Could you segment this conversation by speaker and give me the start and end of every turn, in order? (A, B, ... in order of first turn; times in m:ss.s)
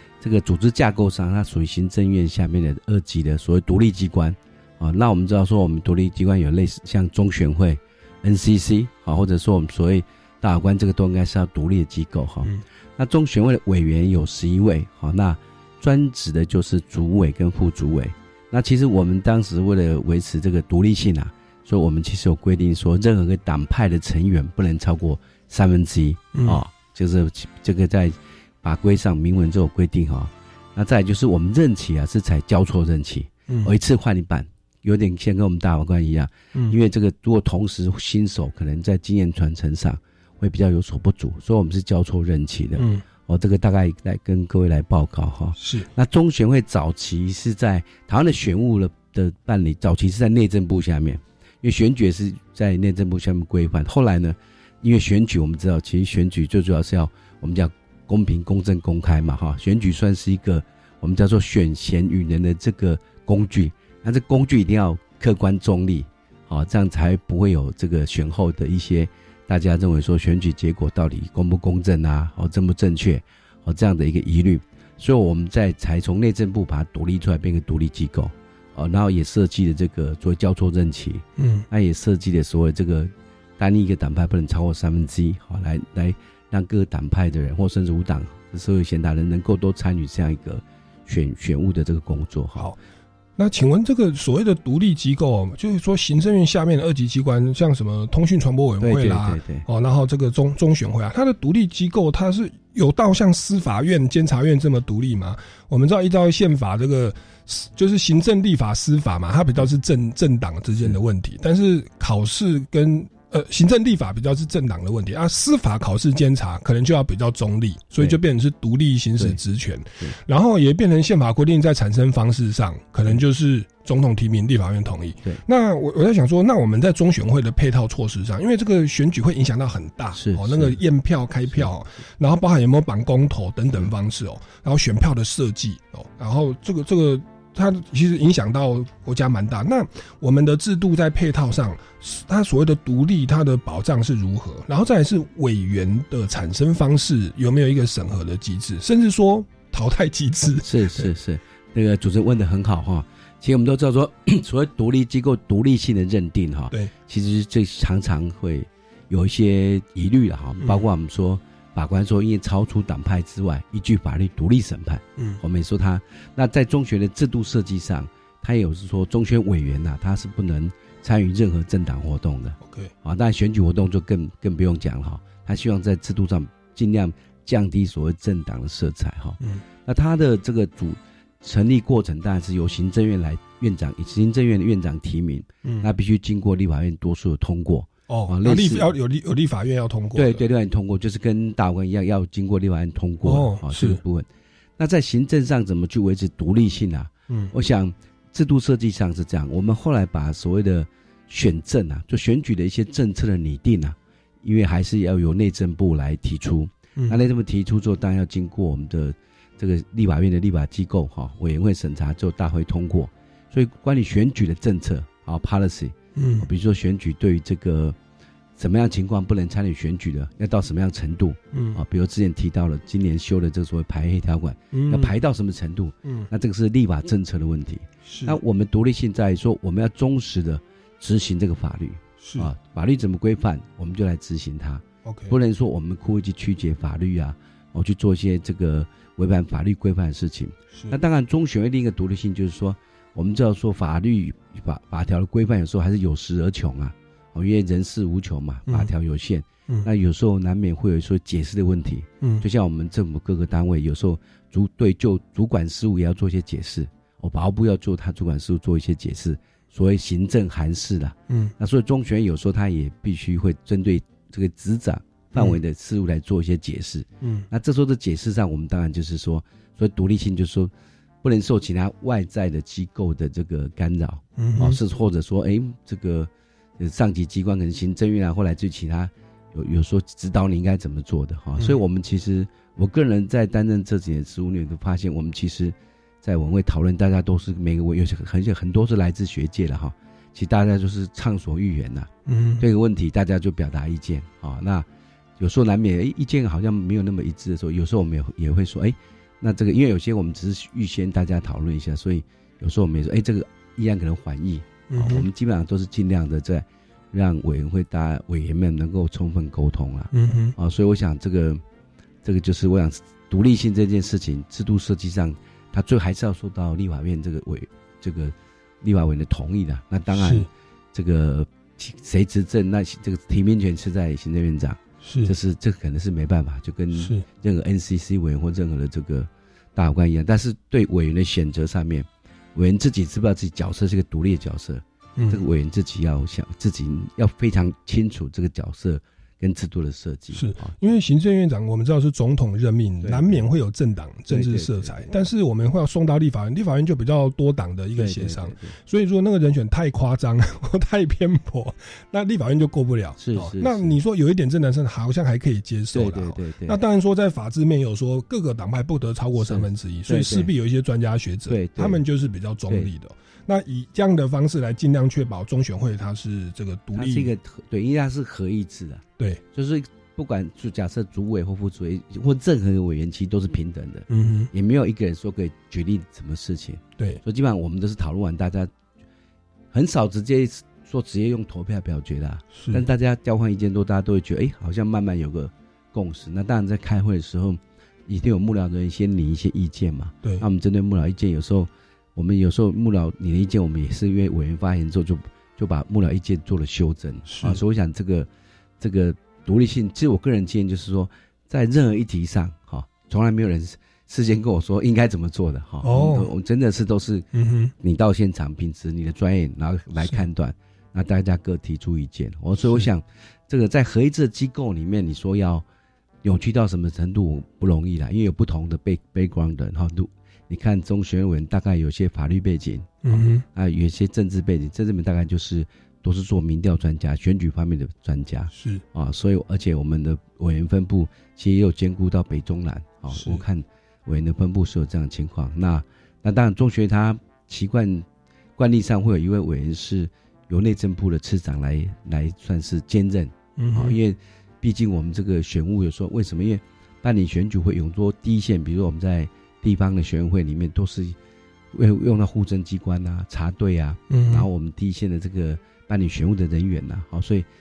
0:00.2-1:32.7 A
0:26.3-0:26.6 B
0:42.7-0:43.0 B
0:45.6-0:45.9 B
1:21.4-1:21.6 B
1:33.4-2:31.1 B
1:38.8-1:39.6 A
2:10.1-2:10.8 A
2:30.6-3:08.9 A
2:52.6-2:52.9 B
3:08.1-3:10.4 B
3:10.1-3:14.3 A
3:13.2-3:14.0 B
3:14.8-3:38.0 A
3:36.1-3:36.5 B
3:38.6-4:30.7 A
3:41.5-3:41.8 B
3:44.7-3:45.1 B
3:46.0-3:46.3 B
3:48.0-3:48.4 B
3:52.2-3:52.5 B
3:55.0-3:55.3 B
4:27.2-4:27.5 B
4:31.2-4:52.1 A
4:34.4-4:34.8 B
4:52.3-4:52.6 B
4:52.6-4:54.8 A
4:55.4-5:11.6 A
5:04.9-5:05.2 B
5:10.1-5:10.5 B
5:12.2-5:40.7 A
5:20.1-5:20.5 B
5:25.0-5:25.3 B
5:27.0-5:27.2 B
5:35.2-5:35.4 B
5:40.3-6:07.3 B
5:43.0-5:43.4 A
5:44.3-5:45.1 A
5:48.0-5:48.8 A
5:53.2-5:53.9 A
5:55.9-5:56.8 A
5:59.4-6:00.5 A
6:01.5-6:02.0 A
6:06.9-6:18.7 A
6:14.1-6:14.5 B
6:19.7-6:38.3 A
6:22.5-6:22.8 B
6:37.2-6:37.6 B
6:38.8-6:47.3 A
6:45.8-6:46.3 B
6:47.3-6:47.7 B
6:47.8-6:55.6 A
6:56.2-7:18.0 A
7:03.0-7:03.4 B
7:08.5-7:08.8 B
7:13.1-7:13.4 B
7:18.6-7:31.2 A
7:23.6-7:24.0 B
7:31.7-7:37.4 A
7:34.1-7:34.5 B